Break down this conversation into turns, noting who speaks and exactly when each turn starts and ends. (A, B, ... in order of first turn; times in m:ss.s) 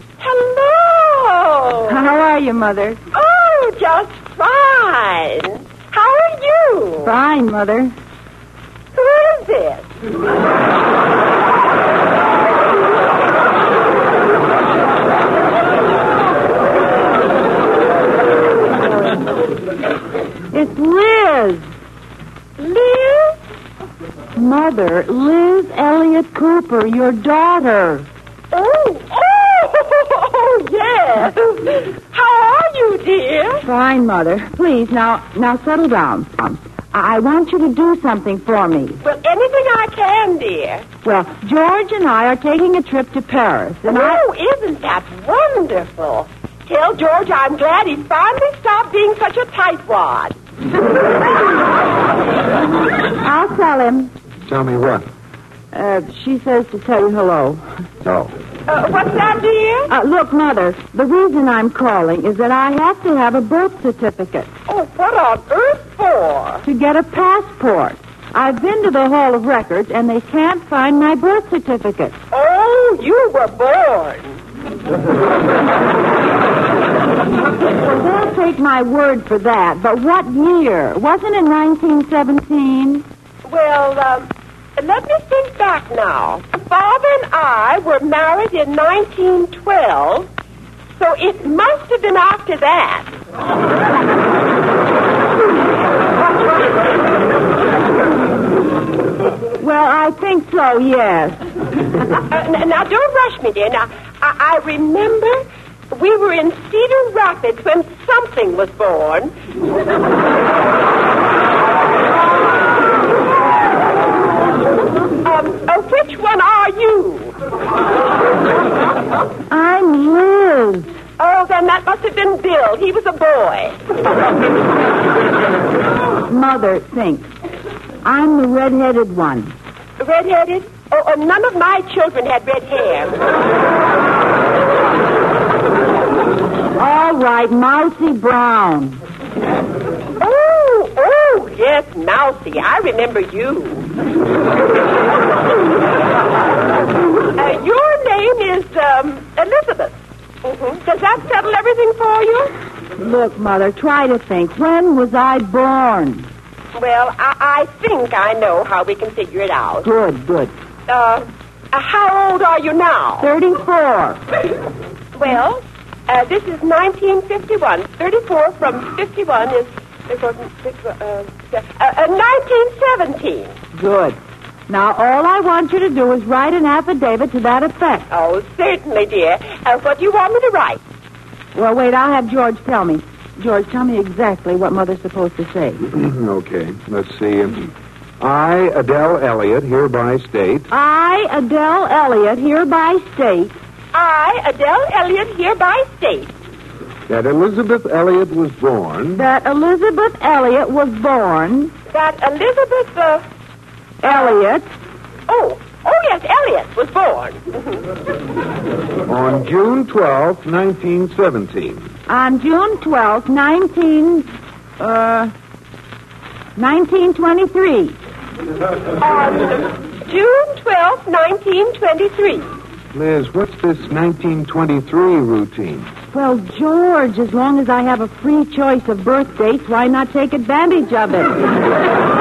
0:00.2-0:02.0 A
0:01.9-0:03.0 B
0:03.1-0:07.1 A
0:07.0-0:07.9 B
0:08.9-0:09.9 A
0:20.5-0:21.6 B
0:22.6-0:23.4 A
0:24.4-0:28.1 B
0:28.5-0:33.6 A
0:33.6-0:39.0 B
0:39.0-0:40.8 A
0:41.0-0:44.2 B
0:43.9-0:50.3 A
0:53.2-0:54.1 B
0:54.4-0:55.0 C
0:55.7-0:57.6 B
0:58.0-0:58.3 C
0:58.7-0:59.9 A
0:59.9-1:04.5 B
1:04.7-1:06.6 A
1:06.6-1:12.2 B
1:12.3-1:14.4 A
1:17.8-1:23.0 B
1:23.4-1:30.3 A
1:31.0-1:33.1 A
1:39.6-1:41.4 B
1:42.3-1:45.4 A
1:45.9-1:49.3 A
1:55.2-1:57.4 A
1:59.5-2:00.9 B
2:01.2-2:03.8 A
2:06.3-2:07.3 B
2:08.0-2:09.5 B
2:10.0-2:13.2 A
2:16.8-2:19.0 B
2:20.2-2:23.9 A
2:27.3-2:32.5 A
2:33.0-2:36.3 B
2:36.7-2:39.9 A
2:39.8-2:40.5 B
2:40.9-2:43.3 A
2:43.2-2:44.2 B
2:45.1-2:53.5 A
2:53.7-2:58.0 B
2:58.1-3:00.8 A
3:01.5-3:05.8 B
3:05.8-3:07.7 C
3:08.2-3:10.7 C
3:10.7-3:13.5 B
3:13.9-3:16.3 A
3:17.1-3:19.2 C
3:19.1-3:21.7 B
3:21.9-3:23.2 A
3:24.0-3:24.7 B
3:25.3-3:27.8 A
3:29.1-3:31.9 C
3:32.1-3:35.3 B
3:36.6-3:38.0 B
3:39.0-3:42.5 A
3:42.9-3:45.9 C
3:46.1-3:51.4 B